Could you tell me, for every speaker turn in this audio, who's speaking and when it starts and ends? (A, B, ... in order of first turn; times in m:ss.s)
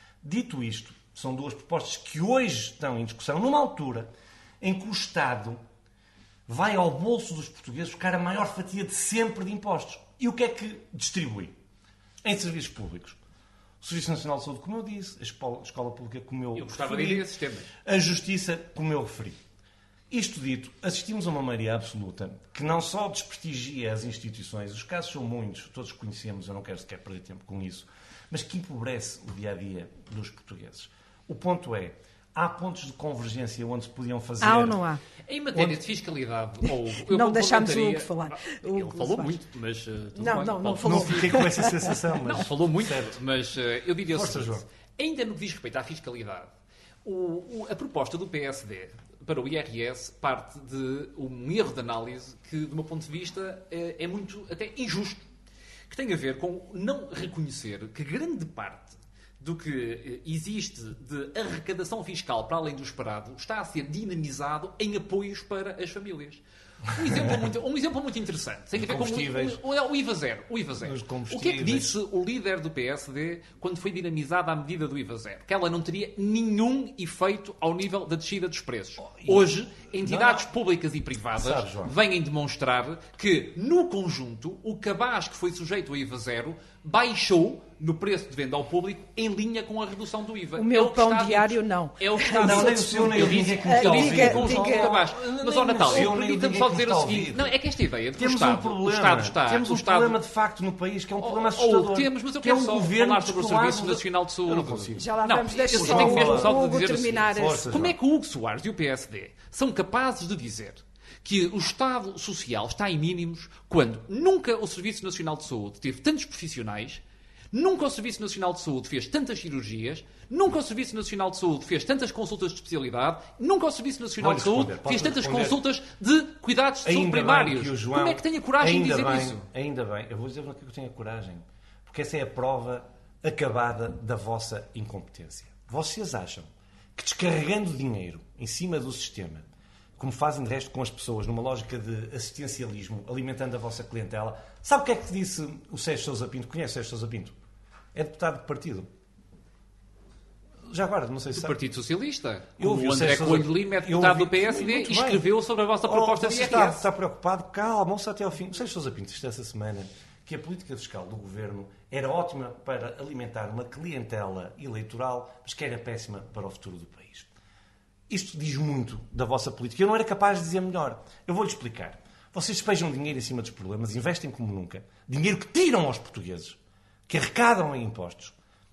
0:00.2-0:04.1 A
0:04.6-0:05.6 A
0:06.5-0:11.5 A
0:12.2-0:13.2 A
0:13.8-0:17.2 A
0:16.5-0:17.7 B
0:17.8-0:19.4 A
0:20.1-0:34.8 A
0:34.4-0:35.0 C
0:35.3-0:46.5 B
0:35.5-0:35.8 A
0:36.9-0:39.4 C
0:40.2-0:41.7 C
0:40.8-0:43.2 A
0:44.1-0:44.6 A
0:47.0-0:55.2 B
0:55.9-1:40.2 B
1:08.8-1:09.6 A
1:10.8-1:12.0 A
1:19.0-1:19.5 A
1:20.0-1:20.4 A
1:21.4-1:21.9 A
1:30.6-1:35.0 C
1:32.4-1:37.5 A
1:38.2-1:45.1 A
1:41.2-2:09.4 B
1:45.0-1:47.7 C
1:45.7-1:46.6 A
1:47.1-1:48.0 A
2:04.2-2:05.6 A
2:06.8-2:19.4 A
2:20.0-2:27.3 A
2:27.9-2:28.9 A
2:30.7-2:31.6 A
2:31.3-2:36.8 B
2:32.6-2:35.2 A
2:35.8-2:47.3 A
2:48.1-2:58.3 A